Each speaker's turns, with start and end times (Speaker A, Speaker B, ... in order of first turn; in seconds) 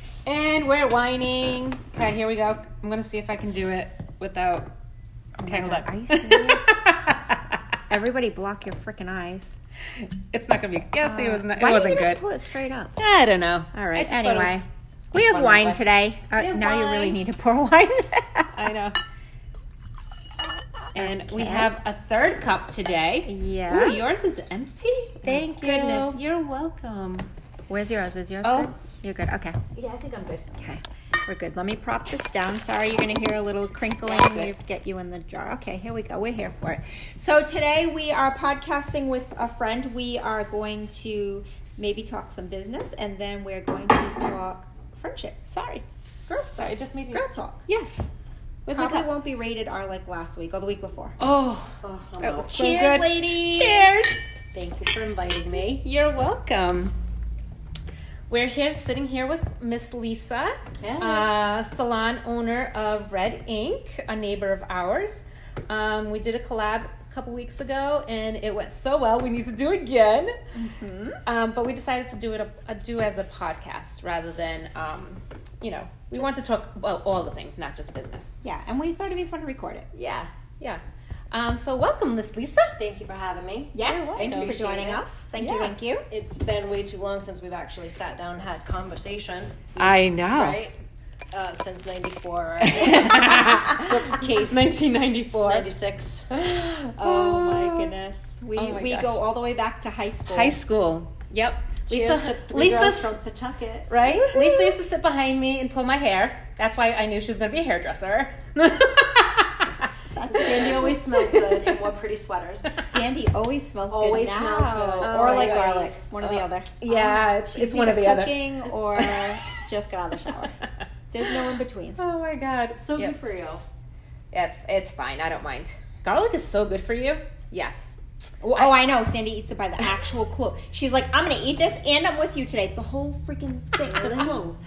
Speaker A: 0.2-4.7, 5.4-7.6, 10.0-12.2, 13.0-15.8, 16.4-17.2, 18.5-19.0, 20.9-27.3, 28.4-28.7, 29.8-30.5, 34.0-34.5, 45.5-48.1, 48.7-49.1, 51.2-54.2, 55.8-56.9, 58.3-70.3, 71.2-78.3, 79.9-82.7, 84.2-84.5, 85.4-85.7, 89.8-90.6, 92.6-95.7, 96.3-97.9, 98.5-99.2, 100.3-103.1, 103.9-109.9, 110.4-111.8, 115.0-118.4, 118.9-119.6, 120.3-120.7, 122.0-123.2, 124.3-128.0, 129.8-130.1
Speaker B: 5.4-6.8, 7.9-9.5, 11.0-13.0, 13.7-18.5, 20.9-21.7, 23.2-24.2, 25.2-26.2, 27.7-29.6, 30.5-45.4, 46.3-47.6, 48.7-51.2, 52.5-53.9, 70.5-71.2, 78.4-79.9, 83.7-86.0, 97.0-100.6, 104.0-104.8, 110.1-111.0, 112.8-120.6, 121.1-122.0, 128.4-134.5
Speaker C: 51.8-52.7, 54.5-55.8, 60.8-61.3, 82.8-85.0, 86.1-90.8, 91.3-94.8, 95.4-96.3, 101.9-103.9, 110.3-112.9, 113.9-116.0, 122.8-123.6, 133.8-134.6